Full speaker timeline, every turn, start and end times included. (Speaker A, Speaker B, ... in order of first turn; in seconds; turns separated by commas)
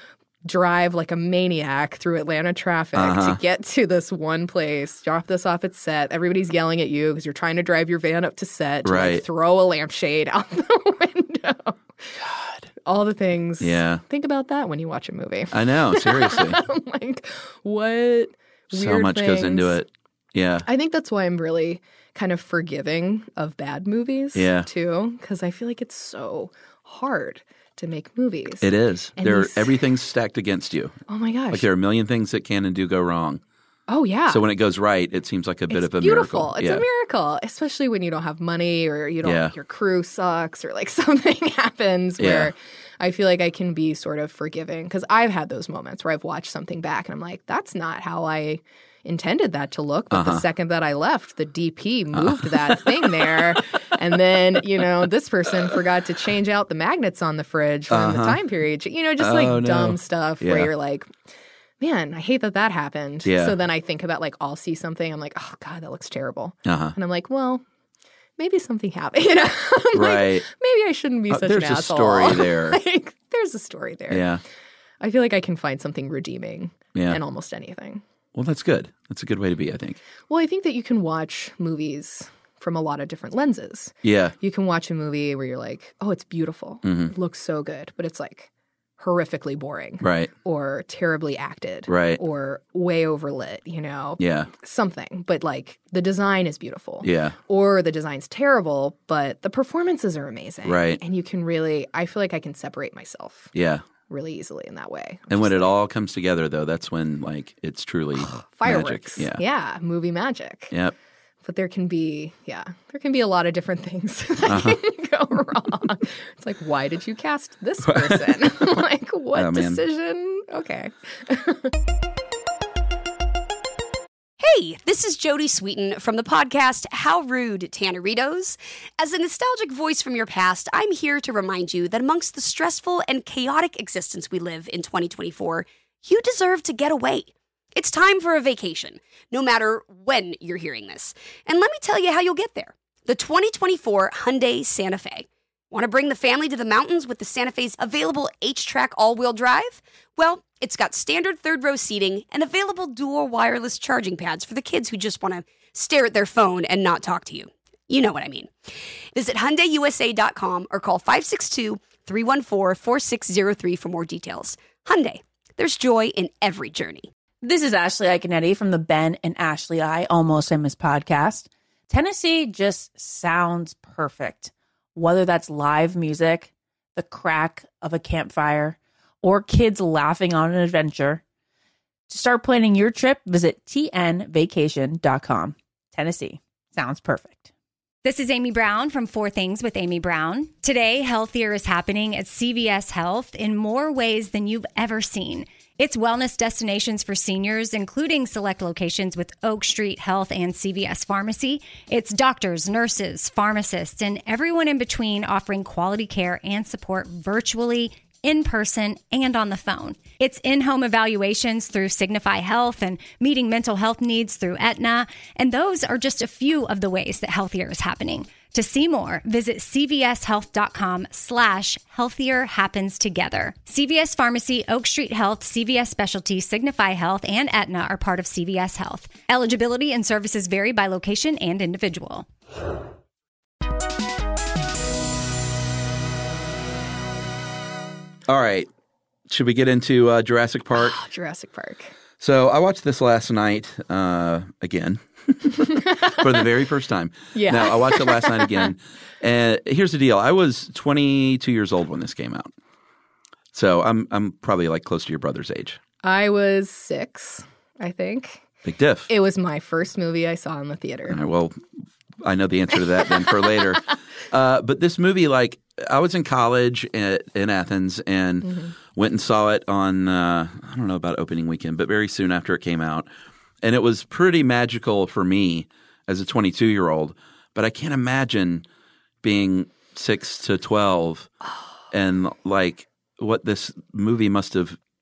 Speaker A: 0.4-11.8, Speaker B: 2.9-3.4, Speaker B: 8.8-9.2, Speaker B: 12.2-12.7, Speaker A: 12.8-19.8, Speaker B: 13.6-14.0, Speaker B: 15.5-16.6, Speaker B: 18.7-20.6, Speaker A: 20.6-29.8, Speaker B: 24.3-24.7, Speaker B: 28.6-31.0, Speaker A: 31.1-31.6, Speaker B: 31.5-33.4, Speaker A: 33.9-34.4, Speaker B: 34.3-36.8, Speaker A: 35.7-61.1, Speaker B: 39.2-39.5, Speaker B: 42.2-42.5, Speaker B: 50.1-50.4, Speaker B: 52.2-53.3, Speaker B: 57.9-58.4, Speaker B: 59.2-60.7, Speaker A: 61.8-67.6, Speaker B: 63.2-63.5, Speaker B: 66.6-67.0, Speaker A: 68.4-74.2, Speaker B: 69.9-70.5, Speaker B: 71.3-72.8, Speaker B: 74.1-74.4, Speaker A: 75.0-78.0, Speaker B: 76.9-77.2, Speaker B: 78.3-80.0, Speaker A: 80.3-103.5, Speaker B: 84.0-84.3, Speaker B: 86.8-87.1, Speaker B: 90.0-90.3, Speaker B: 91.9-92.2, Speaker B: 94.2-94.5, Speaker B: 97.0-97.3, Speaker B: 100.6-101.0, Speaker B: 103.5-103.8, Speaker A: 104.1-105.7, Speaker B: 105.3-109.4, Speaker A: 108.2-110.7, Speaker A: 111.4-121.7, Speaker B: 114.5-114.8, Speaker B: 117.8-118.5, Speaker B: 119.3-119.8, Speaker C: 124.4-158.5, Speaker C: 159.1-167.1, Speaker D: 167.4-181.2, Speaker D: 182.1-187.5, Speaker E: 188.0-232.2, Speaker B: 238.3-238.7, Speaker B: 239.3-241.0, Speaker A: 240.7-241.9, Speaker B: 242.2-252.5, Speaker A: 245.6-246.4, Speaker A: 247.3-248.7, Speaker B: 253.5-255.8, Speaker A: 256.0-258.4, Speaker B: 258.6-259.1, Speaker A: 259.1-261.2, Speaker B: 261.1-261.6, Speaker B: 262.2-273.1, Speaker A: 268.4-268.7, Speaker B: 273.6-278.6, Speaker B: 279.2-281.3, Speaker B: 281.9-284.8